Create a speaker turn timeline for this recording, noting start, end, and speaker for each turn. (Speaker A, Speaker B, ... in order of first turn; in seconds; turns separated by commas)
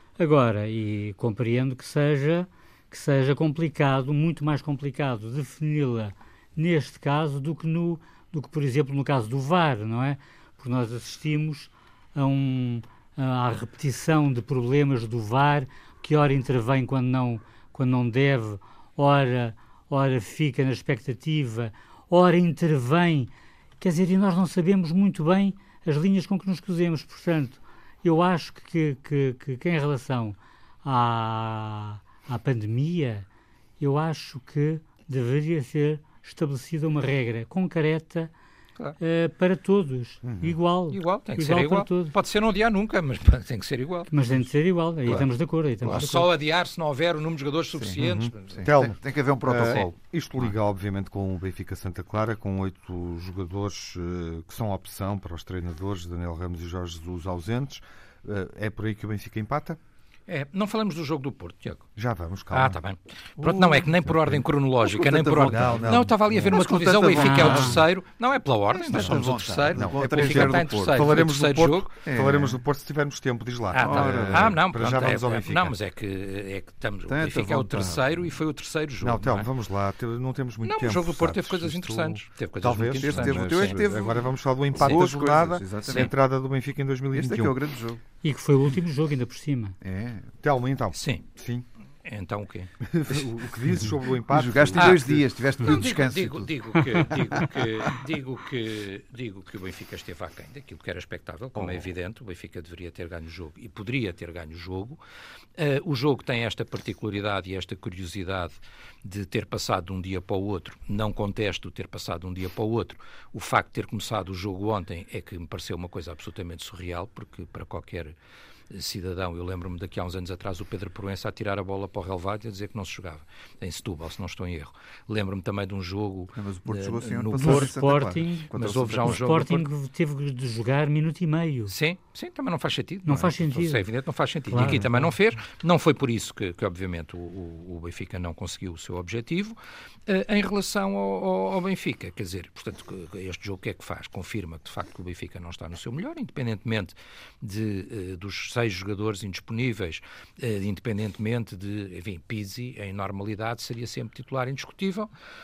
Speaker A: 0.2-33.2, Speaker A: 33.8-38.3, Speaker A: 39.0-42.1, Speaker B: 40.2-40.6, Speaker C: 40.9-44.1, Speaker A: 44.1-46.3, Speaker C: 45.8-48.9, Speaker D: 47.7-48.0, Speaker B: 48.0-59.8, Speaker D: 48.5-50.5, Speaker C: 60.3-61.9, Speaker B: 62.0-62.8, Speaker C: 62.5-71.9, Speaker D: 63.4-63.9, Speaker B: 64.1-64.4, Speaker D: 64.8-67.9, Speaker B: 65.4-66.6, Speaker A: 67.2-67.8, Speaker D: 68.7-71.2, Speaker B: 68.9-75.7, Speaker D: 72.0-72.6, Speaker C: 73.7-79.5, Speaker D: 73.7-74.6, Speaker D: 77.1-78.3, Speaker B: 79.0-87.5, Speaker C: 80.6-84.1, Speaker D: 83.0-86.1, Speaker C: 84.7-85.1, Speaker C: 85.8-86.1, Speaker D: 87.1-88.0, Speaker A: 88.2-89.8, Speaker D: 89.8-90.3, Speaker B: 90.4-91.6, Speaker C: 90.9-91.2, Speaker C: 92.0-92.7, Speaker B: 92.9-95.2, Speaker D: 94.3-97.7, Speaker C: 94.7-105.0, Speaker B: 101.6-101.8, Speaker C: 105.6-118.1, Speaker C: 118.7-127.7, Speaker D: 126.3-129.4, Speaker A: 127.4-131.7, Speaker C: 128.5-129.7, Speaker C: 131.7-139.6, Speaker A: 133.1-133.9, Speaker A: 134.5-135.1, Speaker B: 134.6-135.0, Speaker C: 140.1-155.1